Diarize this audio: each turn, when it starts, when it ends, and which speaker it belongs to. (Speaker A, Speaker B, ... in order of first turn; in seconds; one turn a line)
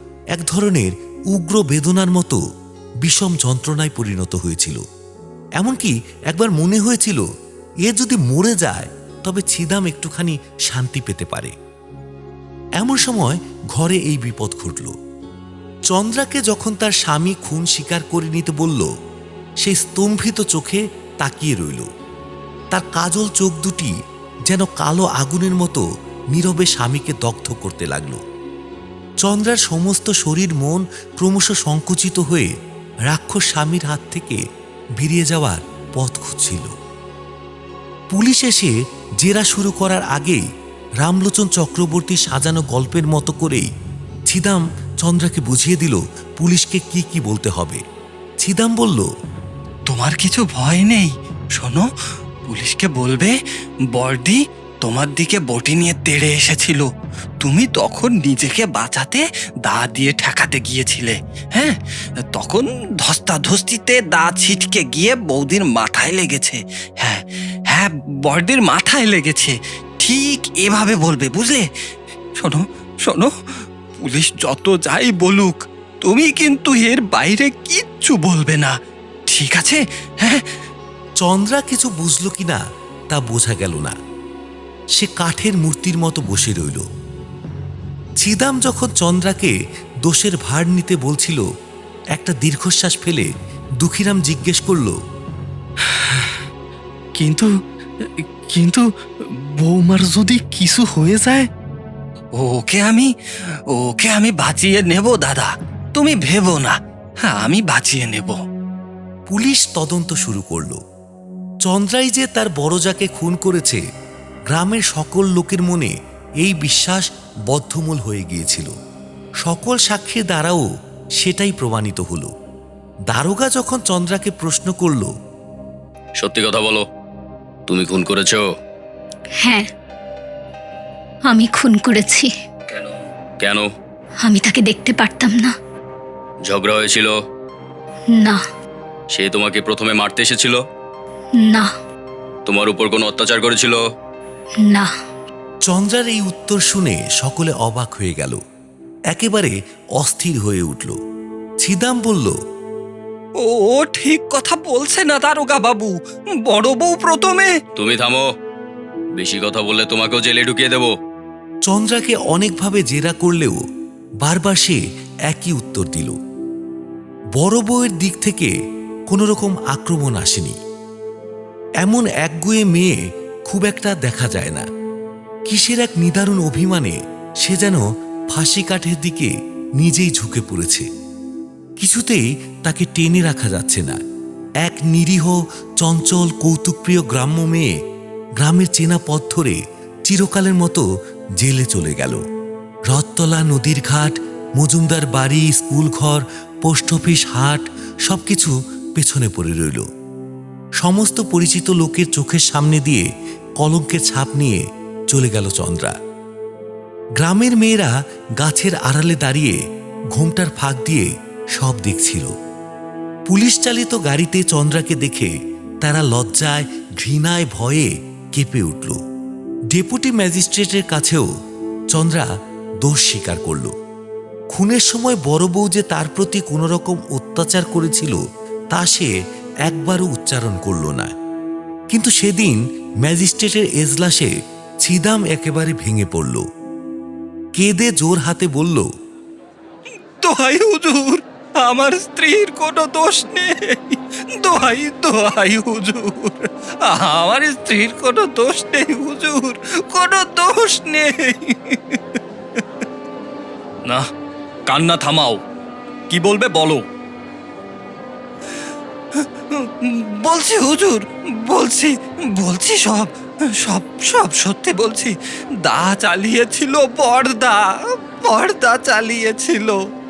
Speaker A: 0.3-2.4
Speaker A: 3.0-4.8
Speaker A: 5.6-7.2
Speaker A: 7.8-11.5
Speaker A: 12.8-14.9
Speaker A: 15.9-18.9
Speaker A: 19.6-21.9
Speaker A: 22.7-23.9
Speaker A: 24.5-28.2
Speaker A: 29.2-32.5
Speaker A: 33.1-34.4
Speaker A: 35.0-36.7
Speaker A: 38.1-40.4
Speaker A: 41.0-43.7
Speaker A: 44.3-47.8
Speaker A: 48.4-49.1
Speaker B: 49.9-51.9
Speaker B: 52.5-53.4
Speaker B: 53.9-56.9
Speaker B: 57.4-71.7
Speaker B: 72.4-73.3
Speaker B: 74.0-78.7
Speaker B: 79.3-80.5
Speaker A: 81.2-84.0
Speaker A: 85.0-86.8
Speaker A: 88.2-89.5
Speaker A: 90.0-91.5
Speaker A: 92.1-95.0
Speaker C: 97.2-97.5
Speaker C: 98.5-98.8
Speaker C: 99.6-101.5
Speaker B: 102.3-103.1
Speaker B: 103.7-108.4
Speaker A: 109.3-110.8
Speaker A: 111.6-113.8
Speaker A: 114.5-118.7
Speaker A: 119.4-120.7
Speaker A: 121.2-122.3
Speaker A: 123.1-125.1
Speaker D: 126.2-126.8
Speaker D: 127.7-128.4
Speaker E: 129.4-129.7
Speaker E: 131.3-132.3
Speaker D: 133.4-133.7
Speaker E: 134.2-135.5
Speaker D: 136.5-137.1
Speaker E: 138.1-138.4
Speaker D: 139.1-140.6
Speaker E: 141.4-141.7
Speaker D: 142.4-143.8
Speaker A: 145.7-148.4
Speaker A: 149.1-150.9
Speaker A: 151.6-152.3
Speaker B: 153.4-157.5
Speaker D: 157.8-158.3
Speaker D: 159.2-160.9
Speaker A: 161.7-163.6
Speaker A: 164.2-166.2
Speaker A: 167.3-168.5
Speaker A: 169.1-170.6
Speaker A: 171.8-174.7
Speaker A: 175.5-180.9
Speaker A: 181.8-184.0
Speaker A: 184.6-187.7
Speaker A: 188.4-190.8
Speaker A: 191.4-192.2
Speaker A: 192.9-199.8
Speaker A: 200.8-203.1
Speaker A: 203.6-204.6
Speaker A: 205.1-205.9
Speaker A: 207.2-209.6
Speaker A: 210.1-212.3
Speaker A: 213.3-219.0
Speaker A: 219.7-221.3
Speaker A: 221.9-222.3
Speaker A: 222.8-223.7
Speaker A: 224.5-228.2
Speaker A: 228.7-229.1
Speaker A: 229.7-231.1
Speaker A: 231.9-236.4
Speaker A: 237.6-238.9
Speaker B: 240.2-252.2
Speaker B: 254.7-255.4
Speaker B: 256.1-256.9
Speaker B: 259.1-265.1
Speaker B: 265.6-267.7
Speaker B: 268.2-269.8